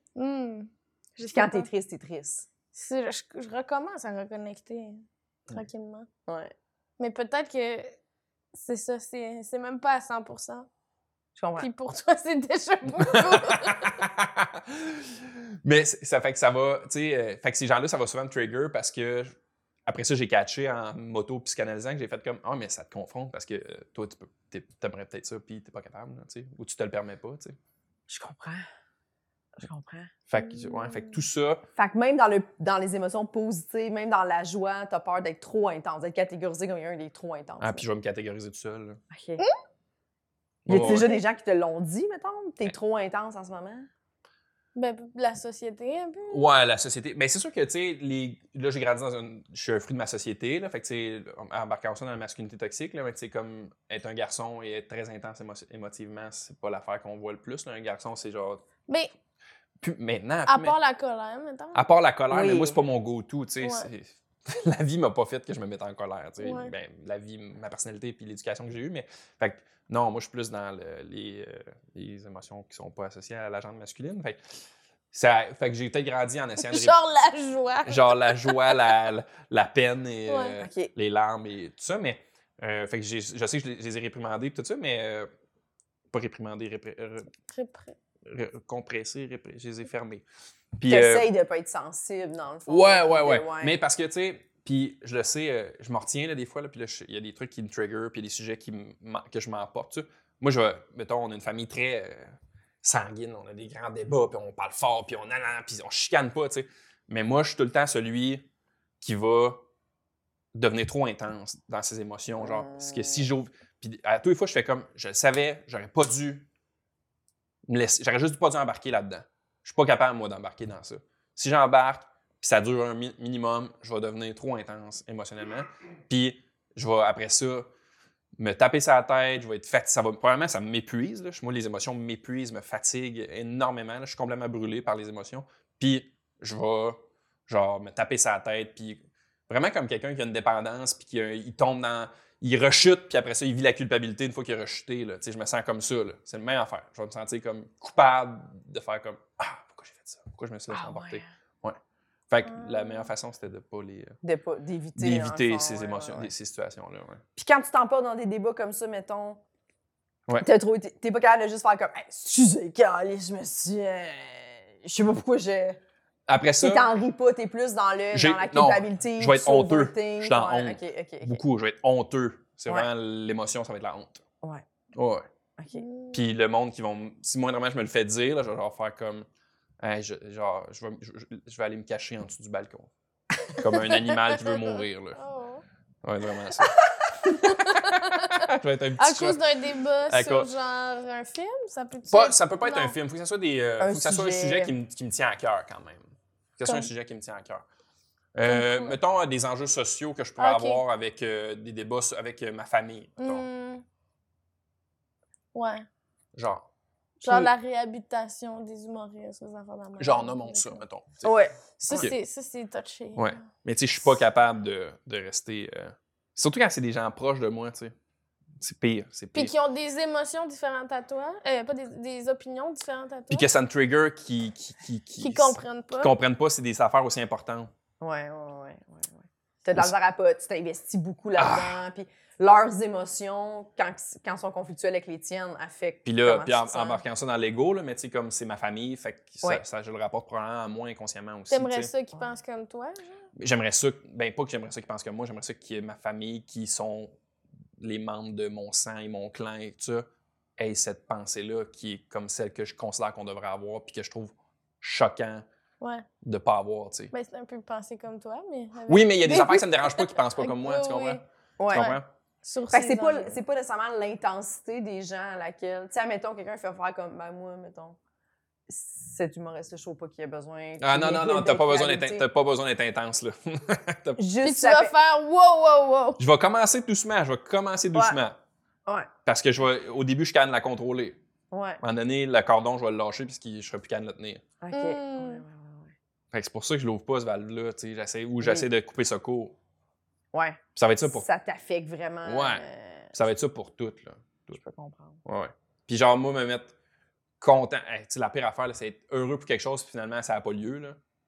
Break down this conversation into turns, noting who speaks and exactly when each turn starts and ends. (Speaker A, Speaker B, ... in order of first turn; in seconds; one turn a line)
Speaker A: 0.2-1.7
Speaker B: 1.3-2.5
Speaker A: 2.7-6.1
Speaker B: 6.3-6.5
Speaker A: 7.0-8.0
Speaker A: 8.5-10.7
Speaker B: 11.4-11.7
Speaker A: 11.6-14.0
Speaker C: 12.9-19.4
Speaker C: 19.9-27.6
Speaker B: 28.1-28.7
Speaker B: 29.6-30.1
Speaker C: 30.3-31.6
Speaker A: 30.4-31.1
Speaker B: 31.8-37.8
Speaker C: 37.6-39.0
Speaker B: 39.1-39.4
Speaker C: 40.7-41.1
Speaker B: 40.7-43.9
Speaker A: 44.8-46.5
Speaker C: 46.3-58.6
Speaker C: 59.8-60.8
Speaker A: 60.5-61.9
Speaker C: 61.7-74.4
Speaker B: 62.3-62.8
Speaker A: 63.6-63.9
Speaker A: 66.4-66.7
Speaker C: 75.1-77.0
Speaker A: 76.6-79.0
Speaker C: 77.9-85.3
Speaker A: 80.3-80.5
Speaker B: 80.6-80.9
Speaker C: 86.1-87.3
Speaker A: 87.5-88.0
Speaker C: 88.3-90.2
Speaker C: 90.8-91.3
Speaker B: 90.9-93.8
Speaker C: 92.7-102.3
Speaker C: 102.8-108.5
Speaker C: 109.0-109.7
Speaker C: 110.5-116.5
Speaker B: 112.4-113.3
Speaker C: 117.7-127.7
Speaker C: 128.4-151.8
Speaker B: 150.7-151.2
Speaker C: 152.3-154.2
Speaker A: 152.5-153.1
Speaker B: 154.2-156.3
Speaker C: 155.0-157.2
Speaker B: 157.4-159.4
Speaker B: 160.4-165.8
Speaker C: 166.3-166.9
Speaker B: 166.6-171.4
Speaker C: 168.1-174.2
Speaker C: 174.9-175.3
Speaker B: 175.6-175.8
Speaker A: 175.7-176.2
Speaker C: 176.1-179.3
Speaker C: 179.8-182.9
Speaker C: 183.6-185.2
Speaker A: 183.7-185.6
Speaker C: 186.0-186.8
Speaker C: 187.3-189.4
Speaker A: 187.3-192.9
Speaker C: 190.1-190.5
Speaker C: 192.1-197.7
Speaker B: 193.8-194.7
Speaker A: 196.6-196.9
Speaker C: 198.3-203.4
Speaker A: 198.5-198.9
Speaker A: 200.4-200.8
Speaker A: 203.2-203.8
Speaker A: 205.5-205.9
Speaker C: 206.3-206.7
Speaker A: 207.2-210.8
Speaker B: 207.2-207.5
Speaker C: 210.0-211.3
Speaker B: 211.2-212.1
Speaker A: 211.8-213.4
Speaker C: 213.2-217.9
Speaker C: 218.6-219.5
Speaker A: 219.3-223.5
Speaker C: 223.3-227.7
Speaker A: 225.2-226.1
Speaker B: 228.0-237.0
Speaker C: 231.4-231.8
Speaker C: 236.1-241.9
Speaker A: 241.5-243.1
Speaker C: 243.4-247.2
Speaker C: 247.8-250.1
Speaker C: 250.6-255.4
Speaker A: 255.8-256.1
Speaker C: 256.2-257.1
Speaker A: 257.1-263.4
Speaker C: 258.9-262.1
Speaker B: 261.6-261.9
Speaker B: 262.7-268.0
Speaker B: 268.7-272.3
Speaker C: 270.8-274.2
Speaker B: 274.2-274.9
Speaker A: 274.4-276.2
Speaker C: 276.2-278.4
Speaker C: 279.3-281.2
Speaker B: 281.5-281.8
Speaker C: 281.8-284.4
Speaker B: 284.6-285.9
Speaker A: 284.7-285.4
Speaker C: 286.3-289.6
Speaker B: 288.4-288.7
Speaker B: 290.3-293.1
Speaker C: 290.8-291.3
Speaker C: 292.2-294.6
Speaker B: 294.5-295.2
Speaker C: 295.2-296.7
Speaker C: 297.4-301.0